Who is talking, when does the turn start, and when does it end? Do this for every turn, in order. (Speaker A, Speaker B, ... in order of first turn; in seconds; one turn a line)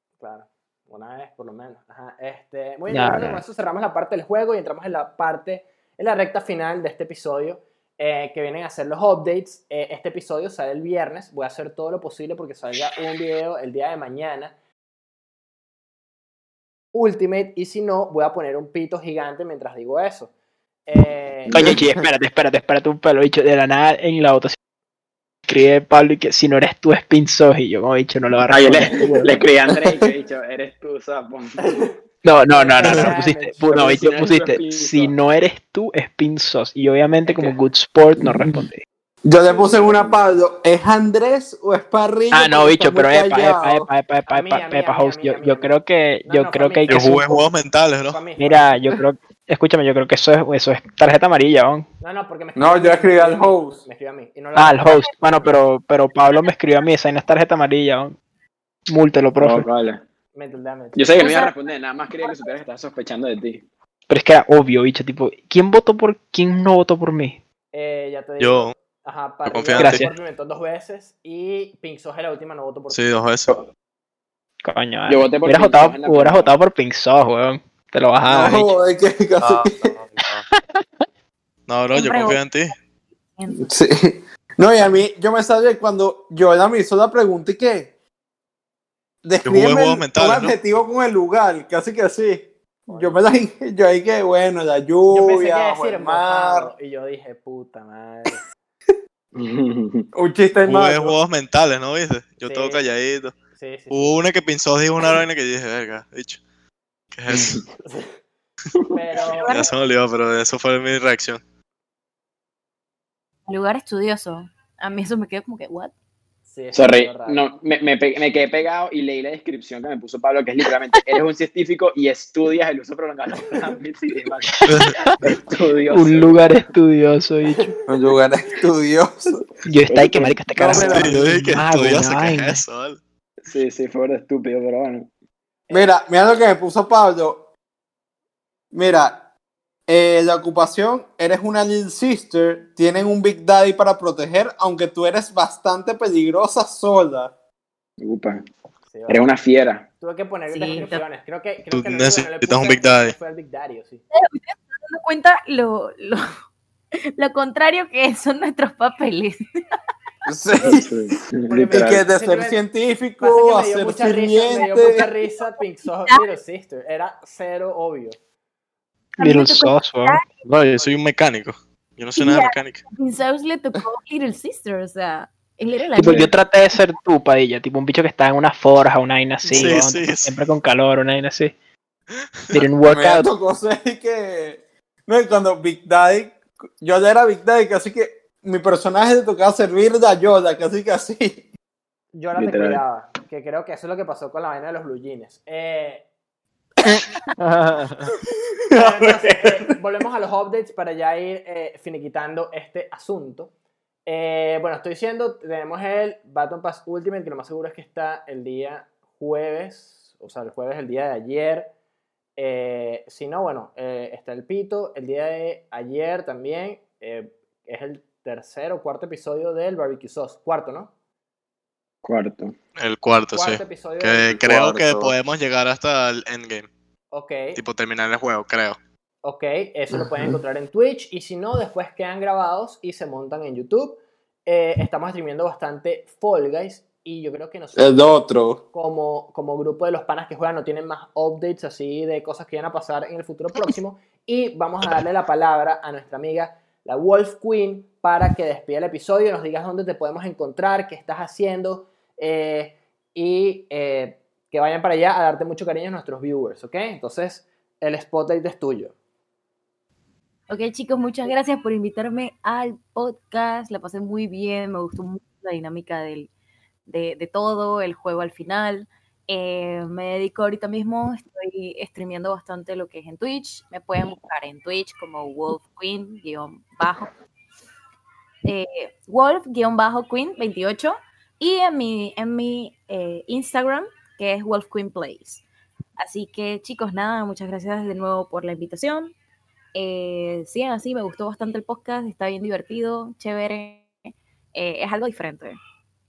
Speaker A: 0.2-14.5
Speaker B: 2.9-3.4
Speaker A: 16.9-20.3
Speaker A: 20.9-21.7
Speaker C: 21.4-21.8
Speaker B: 21.5-24.6
Speaker B: 25.5-29.4
Speaker C: 28.5-31.6
Speaker A: 31.6-33.7
Speaker B: 32.2-38.8
Speaker C: 33.6-35.1
Speaker C: 37.2-37.6
Speaker D: 39.2-43.9
Speaker C: 39.5-40.3
Speaker B: 42.3-47.4
Speaker A: 44.3-47.4
Speaker E: 46.9-48.3
Speaker A: 48.1-48.7
Speaker B: 48.4-51.9
Speaker A: 52.0-55.5
Speaker D: 52.5-53.9
Speaker B: 54.5-58.2
Speaker B: 58.9-59.7
Speaker C: 59.4-60.0
Speaker A: 60.3-61.4
Speaker C: 60.9-63.6
Speaker F: 61.2-61.6
Speaker F: 62.1-62.5
Speaker B: 64.1-67.4
Speaker A: 67.7-73.0
Speaker E: 68.4-68.7
Speaker E: 69.5-70.0
Speaker B: 69.7-70.2
Speaker E: 72.9-73.6
Speaker B: 74.6-78.7
Speaker C: 75.1-76.6
Speaker D: 78.2-79.9
Speaker E: 79.4-80.4
Speaker B: 80.5-80.8
Speaker E: 81.7-82.7
Speaker F: 81.9-82.4
Speaker F: 83.3-83.7
Speaker D: 83.5-87.9
Speaker D: 89.2-96.7
Speaker E: 89.4-90.5
Speaker A: 92.9-93.2
Speaker A: 95.1-98.4
Speaker C: 99.3-100.1
Speaker D: 100.1-101.2
Speaker E: 100.6-103.3
Speaker A: 102.4-102.8
Speaker A: 103.5-104.2
Speaker E: 103.9-106.4
Speaker E: 107.1-107.6
Speaker C: 107.3-107.6
Speaker A: 107.8-108.2
Speaker A: 108.9-109.7
Speaker F: 109.2-109.7
Speaker E: 109.4-111.4
Speaker F: 113.5-115.9
Speaker A: 116.5-117.4
Speaker C: 116.7-126.7
Speaker A: 123.3-123.8
Speaker B: 124.5-125.2
Speaker E: 124.7-124.9
Speaker B: 125.9-127.7
Speaker A: 127.5-128.0
Speaker D: 127.8-129.6
Speaker B: 129.6-132.6
Speaker C: 129.9-131.0
Speaker D: 130.6-130.8
Speaker E: 130.6-133.0
Speaker C: 133.5-135.1
Speaker D: 135.7-137.5
Speaker D: 138.7-139.2
Speaker D: 139.9-147.3
Speaker C: 148.0-148.4
Speaker A: 148.9-149.3
Speaker C: 149.1-149.9
Speaker A: 150.0-154.0
Speaker F: 150.5-151.0
Speaker E: 151.7-153.2
Speaker F: 154.1-156.2
Speaker F: 157.1-159.4
Speaker D: 160.2-161.1
Speaker C: 160.6-162.0
Speaker A: 161.5-162.6
Speaker D: 161.7-165.1
Speaker A: 163.2-168.2
Speaker F: 164.5-165.5
Speaker F: 169.2-170.3
Speaker B: 169.2-170.2
Speaker E: 170.3-172.8
Speaker F: 172.2-176.3
Speaker B: 176.0-181.5
Speaker C: 176.0-176.3
Speaker E: 179.4-180.4
Speaker B: 182.5-183.3
Speaker D: 182.9-191.4
Speaker A: 192.1-196.0
Speaker C: 192.3-192.8
Speaker B: 197.4-197.9
Speaker D: 198.7-199.6
Speaker A: 198.7-203.5
Speaker A: 204.1-211.7
Speaker A: 212.4-220.9
Speaker C: 222.0-222.6
Speaker E: 222.8-226.7
Speaker A: 223.3-224.3
Speaker D: 224.3-225.1
Speaker A: 227.1-227.6
Speaker E: 227.5-228.8
Speaker A: 229.2-258.9
Speaker D: 237.8-238.6
Speaker F: 260.5-266.3
Speaker F: 266.9-277.1
Speaker F: 278.4-285.4
Speaker F: 286.0-289.1
Speaker F: 289.7-293.9
Speaker F: 294.5-295.6